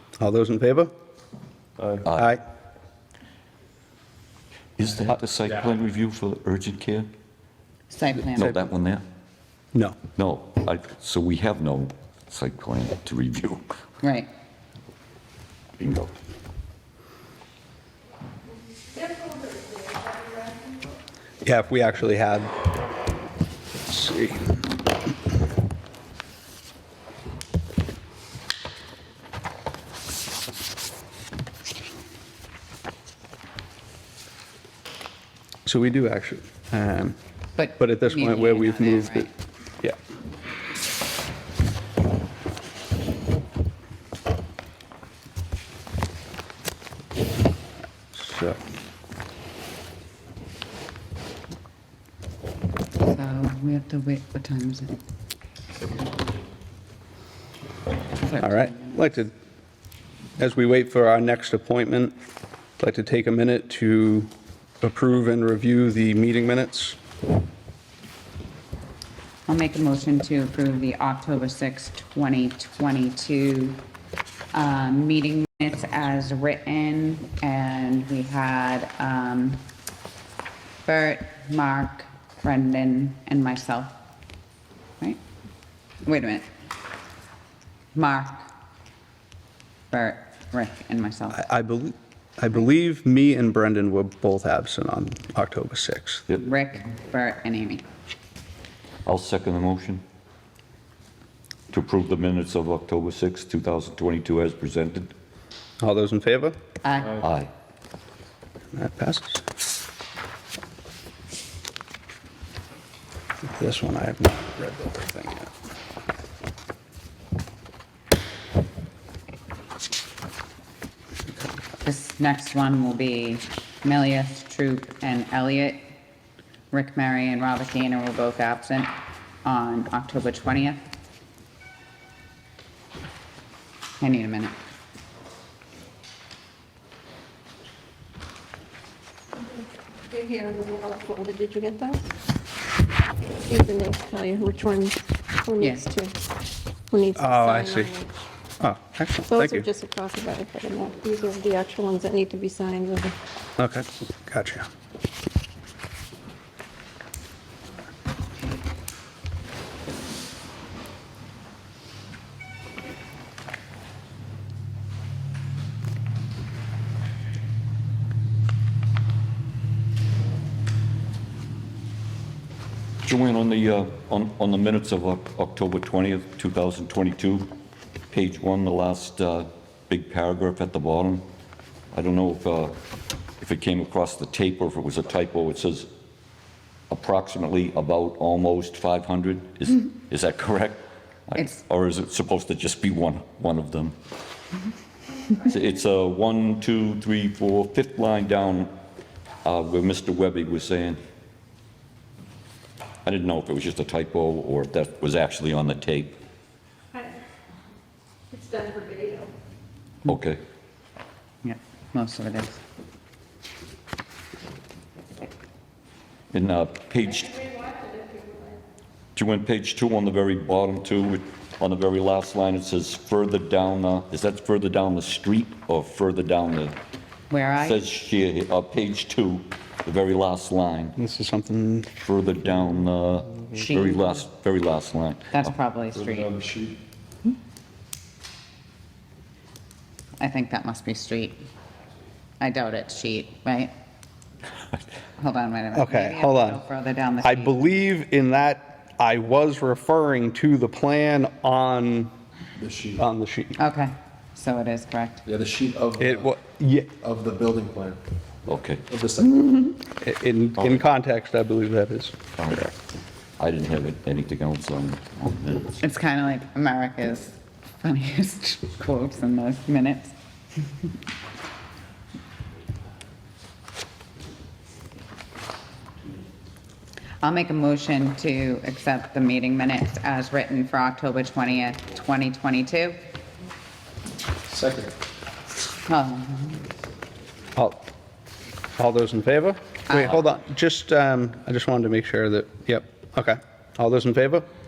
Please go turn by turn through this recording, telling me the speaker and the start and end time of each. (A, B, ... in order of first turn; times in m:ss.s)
0:00.2-0:00.9 A
0:01.8-0:02.0 B
0:02.0-0:02.3 C
0:02.1-0:02.4 A
0:04.8-0:07.1 C
0:07.9-0:08.6 D
0:08.3-0:09.0 C
0:10.2-0:13.7 C
0:14.0-0:14.3 D
0:15.8-0:16.1 C
0:21.4-0:22.5 A
0:23.8-0:24.4 A
0:35.6-0:37.2 A
0:37.6-0:39.3 D
0:37.8-0:39.3 A
0:48.1-0:48.6 A
0:53.0-0:55.0 D
0:58.2-0:59.0 D
0:58.4-0:59.3 A
1:00.4-1:02.1 A
1:02.8-1:04.3 A
1:04.8-1:07.0 A
1:09.5-1:13.8 D
1:14.5-1:19.6 D
1:20.8-1:24.0 D
1:26.0-1:26.4 D
1:27.9-1:28.5 D
1:29.9-1:31.4 D
1:31.3-1:36.2 A
1:36.4-1:37.8 D
1:39.0-1:40.0 C
1:41.7-1:45.1 C
1:45.8-1:46.5 A
1:46.8-1:47.2 D
1:47.2-1:47.5 C
1:48.7-1:49.4 A
1:53.4-1:55.5 A
2:01.8-2:05.9 D
2:06.7-2:08.9 D
2:09.4-2:10.8 D
2:14.0-2:14.5 D
2:20.1-2:22.1 E
2:23.4-2:26.1 E
2:25.6-2:25.8 D
2:26.9-2:28.1 E
2:27.2-2:27.9 A
2:28.6-2:29.7 A
2:29.3-2:33.1 E
2:33.6-2:34.7 A
2:53.0-2:57.5 C
2:58.1-3:01.2 C
3:01.9-3:02.8 C
3:03.4-3:05.9 C
3:06.9-3:14.0 C
3:15.3-3:18.7 C
3:19.4-3:21.0 C
3:23.0-3:26.2 C
3:28.3-3:29.3 E
3:30.0-3:30.4 C
3:31.4-3:32.6 D
3:36.3-3:37.5 C
3:37.7-3:38.4 E
3:39.1-3:46.8 C
3:47.3-3:47.8 D
3:47.6-3:51.0 C
3:51.0-3:51.9 A
3:52.0-3:55.5 C
3:53.5-3:54.2 D
3:55.3-3:56.3 D
3:55.9-3:56.8 B
4:00.2-4:01.4 D
4:02.4-4:03.7 D
4:05.2-4:07.6 D
4:05.7-4:06.6 A
4:07.2-4:12.1 A
4:12.6-4:13.0 B
4:13.0-4:13.6 A
4:13.6-4:15.2 D
4:15.2-4:16.3 B
4:16.0-4:16.9 A
4:17.0-4:18.0 B
4:18.5-4:19.7 C
4:18.9-4:19.4 B
4:20.0-4:22.2 A
4:20.6-4:20.8 C
4:22.4-4:22.8 C
4:23.4-4:25.8 C
4:25.8-4:30.1 D
4:37.2-4:43.0 D
4:44.5-4:44.9 B
4:45.9-4:46.6 D
4:48.8-4:54.5 A
4:49.9-4:50.2 D